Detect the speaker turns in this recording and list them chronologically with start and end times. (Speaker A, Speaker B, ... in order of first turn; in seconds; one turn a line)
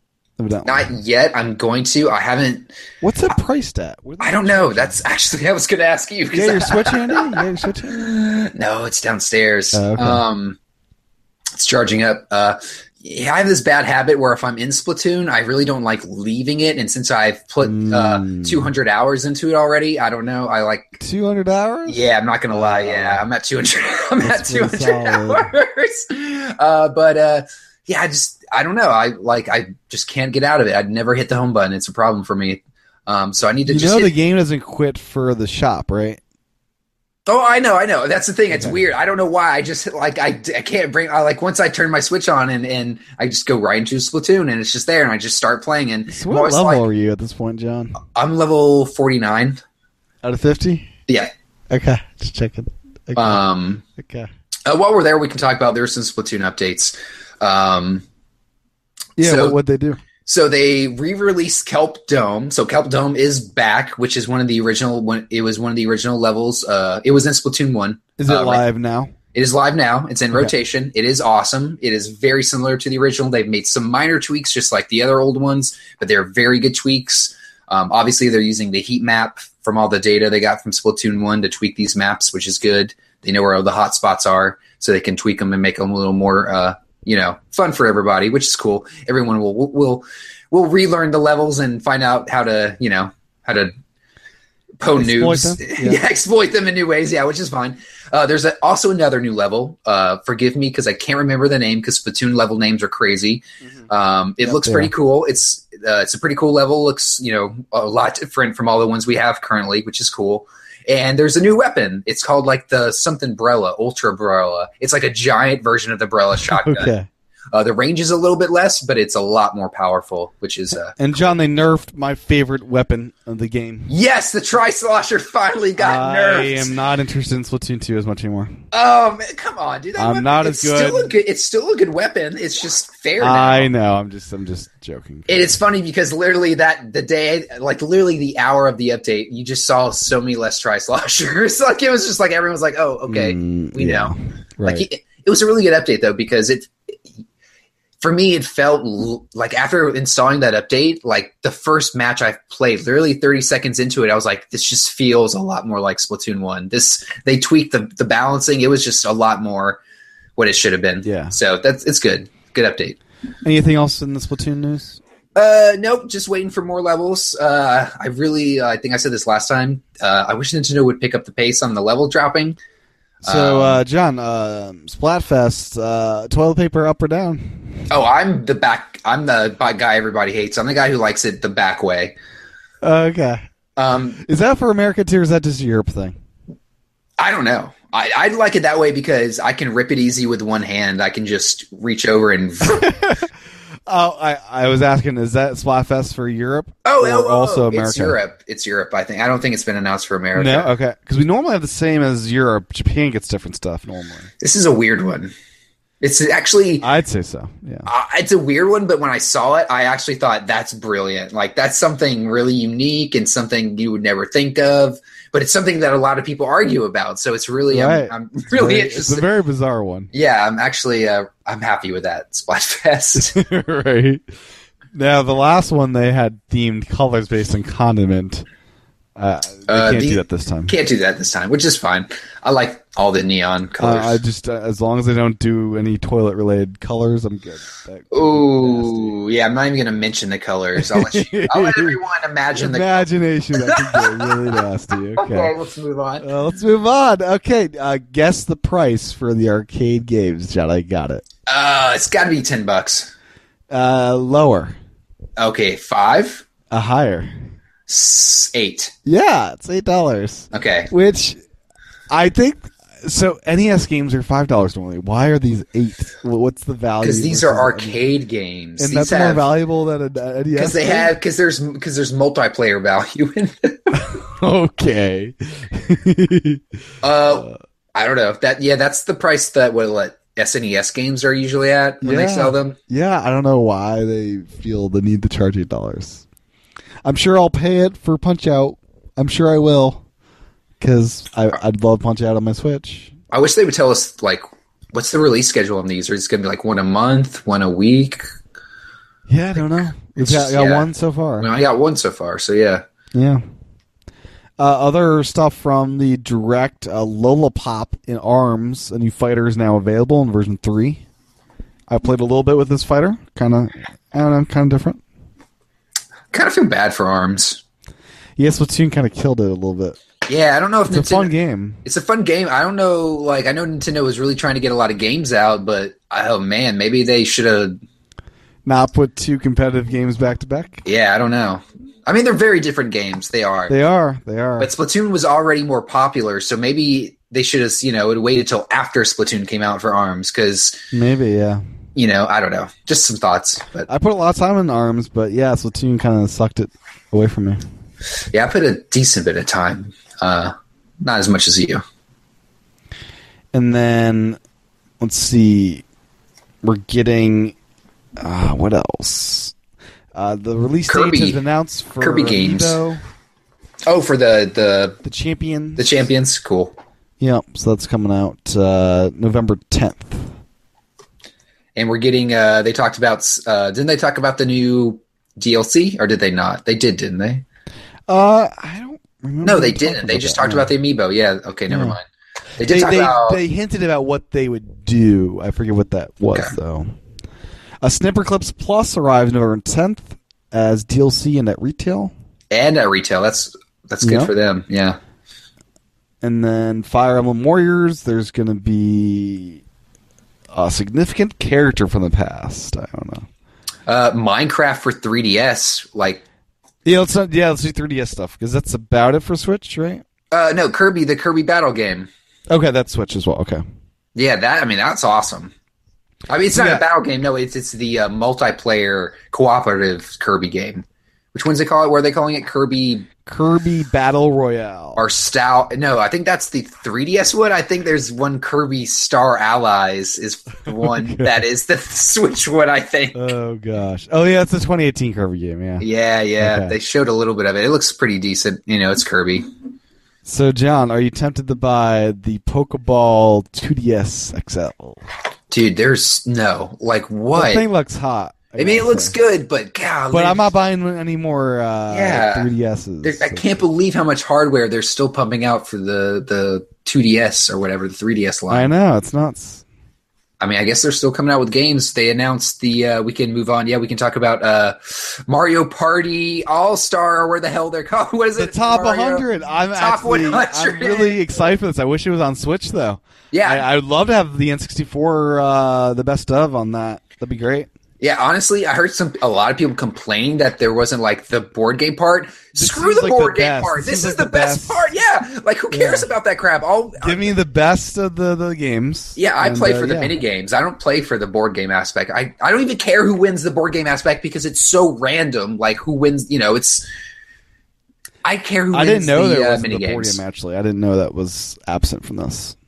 Speaker A: 0.4-0.9
Speaker B: 0.7-2.7
Speaker A: 3.0-5.0
Speaker B: 4.2-10.6
Speaker A: 6.3-8.1
Speaker A: 9.7-10.2
Speaker B: 11.5-20.9
Speaker A: 17.6-18.7
Speaker A: 21.0-23.2
Speaker B: 21.9-34.1
Speaker A: 24.2-25.5
Speaker A: 33.7-36.2
Speaker B: 37.3-46.8
Speaker A: 46.1-48.0
Speaker B: 48.0-49.6
Speaker A: 50.2-50.9
Speaker A: 51.7-53.4
Speaker B: 53.2-53.8
Speaker A: 54.0-54.3
Speaker B: 54.7-58.0
Speaker A: 59.2-60.0
Speaker B: 59.2-59.6
Speaker B: 60.3-68.6
Speaker A: 68.2-69.1
Speaker B: 69.3-93.7
Speaker B: 94.8-116.9
Speaker A: 95.0-96.0
Speaker A: 104.4-104.9
Speaker A: 116.5-117.1
Speaker B: 117.5-121.0
Speaker A: 121.0-123.9
Speaker B: 123.9-126.7
Speaker A: 125.8-128.6
Speaker B: 128.7-133.7
Speaker A: 130.0-131.1
Speaker A: 133.2-135.6
Speaker B: 135.3-144.1
Speaker A: 143.1-144.9
Speaker B: 144.7-146.7
Speaker B: 148.0-159.8
Speaker B: 160.4-163.0
Speaker A: 161.0-161.3
Speaker A: 163.4-165.0
Speaker B: 165.3-172.6
Speaker A: 173.2-177.9
Speaker B: 173.2-173.8
Speaker B: 177.9-182.2
Speaker A: 182.8-183.5
Speaker B: 183.8-184.2
Speaker A: 184.2-186.2
Speaker B: 187.2-193.0
Speaker A: 192.7-193.3
Speaker A: 193.9-198.2
Speaker B: 196.8-200.7
Speaker A: 200.3-204.3
Speaker B: 204.4-205.3
Speaker B: 206.0-206.9
Speaker A: 206.8-207.9
Speaker B: 207.9-219.3
Speaker A: 217.7-220.1
Speaker B: 220.1-223.3
Speaker A: 223.2-224.2
Speaker A: 224.9-228.4
Speaker A: 229.2-230.8
Speaker B: 229.7-234.2
Speaker A: 233.8-239.2
Speaker B: 238.1-243.1
Speaker A: 240.8-242.0
Speaker A: 242.6-245.5
Speaker B: 243.6-244.6
Speaker B: 245.2-246.3
Speaker A: 246.2-251.2
Speaker B: 251.5-253.1
Speaker A: 253.7-254.8
Speaker B: 255.4-256.4
Speaker A: 256.7-257.3
Speaker B: 257.9-258.9
Speaker A: 259.1-261.4
Speaker B: 260.5-260.9
Speaker A: 262.1-268.0
Speaker B: 267.0-269.5
Speaker A: 268.8-271.1
Speaker B: 270.6-274.0
Speaker A: 274.0-276.6
Speaker B: 277.0-282.8
Speaker A: 282.0-286.2
Speaker A: 287.1-290.0
Speaker A: 290.8-293.1
Speaker B: 293.3-298.3
Speaker A: 299.3-301.5
Speaker B: 300.2-300.9
Speaker B: 301.4-302.8
Speaker A: 303.1-303.4
Speaker A: 304.6-311.0
Speaker A: 311.9-315.0
Speaker B: 316.3-317.6
Speaker A: 318.4-320.0
Speaker B: 320.3-321.3
Speaker A: 320.9-321.8
Speaker B: 321.9-327.8
Speaker A: 328.7-330.8
Speaker B: 330.9-333.7
Speaker A: 333.7-334.7
Speaker B: 334.6-340.8
Speaker A: 340.9-341.6
Speaker B: 342.0-343.9
Speaker A: 343.9-347.6
Speaker B: 348.3-351.8
Speaker A: 353.5-354.4
Speaker A: 355.0-355.8
Speaker A: 356.6-357.6
Speaker A: 358.2-359.5
Speaker A: 360.1-363.0
Speaker B: 360.9-361.4
Speaker B: 362.0-362.8
Speaker B: 363.9-365.0
Speaker A: 365.0-365.9
Speaker B: 365.8-366.8
Speaker A: 367.2-370.3
Speaker B: 371.8-377.4
Speaker A: 378.1-380.7
Speaker B: 379.4-382.1
Speaker A: 381.7-382.0
Speaker B: 382.6-383.4
Speaker A: 382.6-386.9
Speaker A: 387.8-392.1
Speaker B: 392.5-395.0
Speaker A: 394.0-394.3
Speaker A: 396.2-399.6
Speaker A: 400.5-403.3
Speaker B: 403.9-406.2
Speaker A: 406.9-410.0
Speaker B: 410.3-412.1
Speaker A: 412.5-413.6
Speaker B: 414.1-415.5
Speaker B: 416.3-423.1
Speaker A: 416.5-416.8
Speaker A: 423.3-425.0
Speaker B: 425.0-433.3
Speaker A: 430.8-431.4
Speaker A: 433.1-435.9
Speaker B: 435.8-439.5
Speaker A: 436.4-436.8
Speaker A: 440.2-445.0
Speaker B: 445.5-447.6
Speaker A: 447.3-449.1
Speaker B: 448.6-450.5
Speaker A: 450.1-453.6
Speaker B: 451.9-452.5
Speaker B: 453.0-458.7
Speaker A: 458.5-459.6
Speaker B: 460.4-471.2
Speaker A: 468.4-477.7
Speaker B: 473.3-473.6
Speaker B: 478.0-487.4
Speaker A: 482.6-484.9
Speaker A: 485.7-486.1
Speaker A: 487.0-490.2
Speaker B: 489.2-496.9
Speaker B: 498.2-500.2
Speaker A: 498.7-502.6